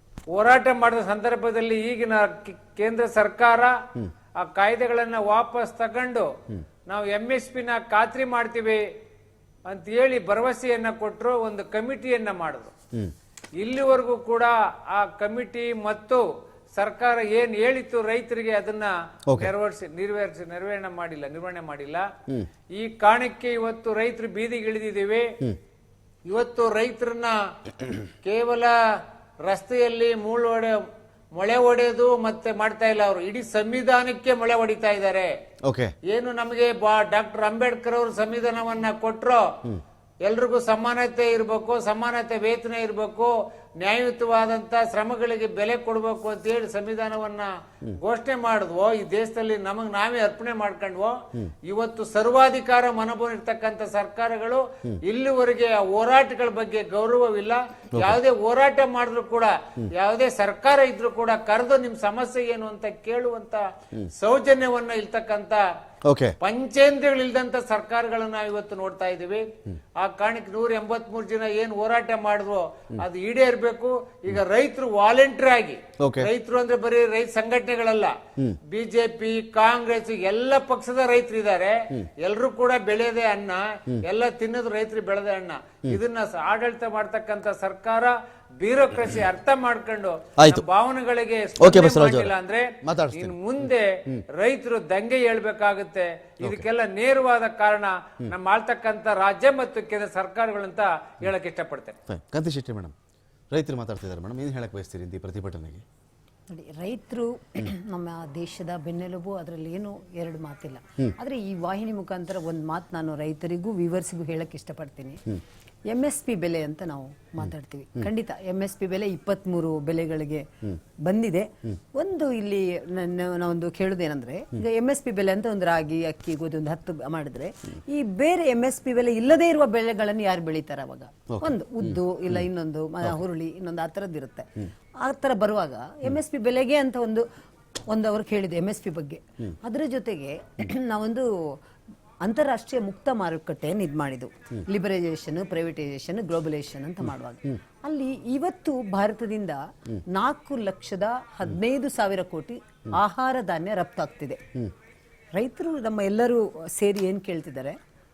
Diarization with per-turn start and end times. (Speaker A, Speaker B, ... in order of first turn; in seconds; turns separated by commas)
Speaker A: 0.3-3.8, Speaker A: 4.4-6.3, Speaker A: 6.8-8.8, Speaker A: 9.7-12.7, Speaker A: 13.6-16.2, Speaker A: 16.8-22.1, Speaker B: 19.3-19.5, Speaker A: 22.7-25.3, Speaker A: 26.3-28.7, Speaker A: 29.4-30.8, Speaker A: 31.4-35.3, Speaker B: 35.6-35.9, Speaker A: 36.1-39.5, Speaker A: 40.2-65.6, Speaker B: 57.9-58.2, Speaker B: 66.0-66.3, Speaker A: 66.4-69.5, Speaker A: 70.0-78.1, Speaker B: 76.0-76.3, Speaker A: 78.7-102.0, Speaker B: 90.4-90.6, Speaker B: 91.6-93.4, Speaker B: 102.1-102.9, Speaker B: 103.5-105.8, Speaker C: 106.5-115.2, Speaker C: 115.9-120.5, Speaker C: 121.0-137.2, Speaker B: 131.3-131.6, Speaker C: 137.9-141.5, Speaker C: 142.2-149.6, Speaker C: 150.1-154.4, Speaker C: 155.3-157.8